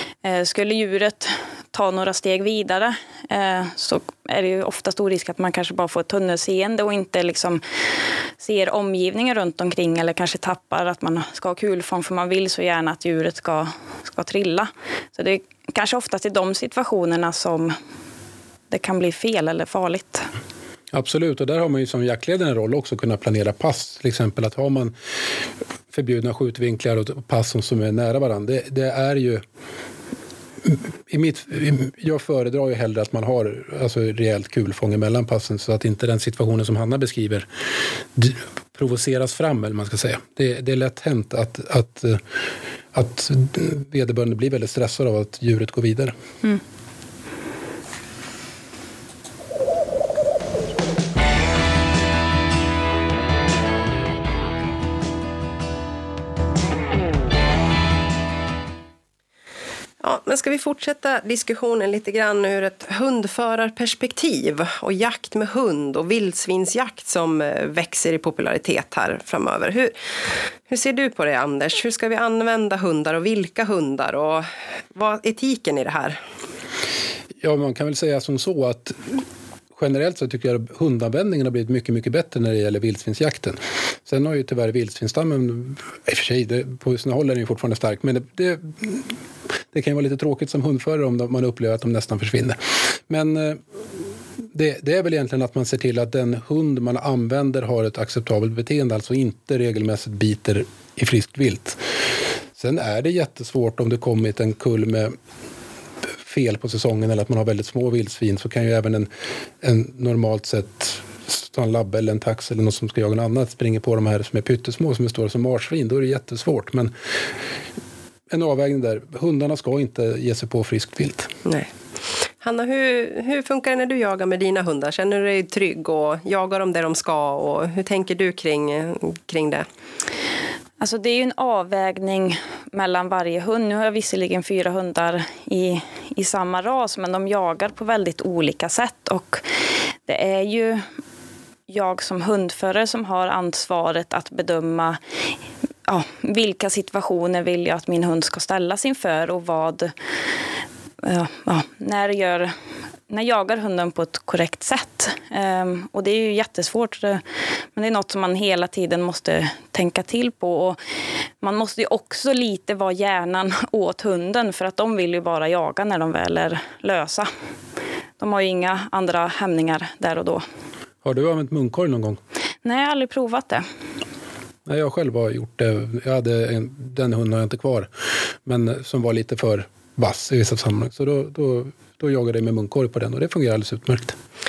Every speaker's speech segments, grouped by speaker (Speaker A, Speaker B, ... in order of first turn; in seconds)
Speaker A: 0.2-7.6, 8.4-17.7, 18.7-20.3, 130.8-139.4, 140.0-140.8, 141.7-145.0, 145.9-149.9, 151.0-152.5, 153.1-157.2, 157.7-160.8, 161.4-167.3, 168.2-170.4, 172.6-173.6
Speaker B: 20.9-24.9, 25.9-29.4, 30.6-37.5, 38.1-46.1, 77.4-79.0, 79.7-89.1, 89.7-93.6, 94.5-101.8, 102.5-105.1, 106.2-109.1, 109.6-116.9, 118.3-121.3, 171.0-172.2, 174.7-177.9, 178.4-184.2
Speaker C: 60.0-69.9, 70.7-76.2, 122.4-129.7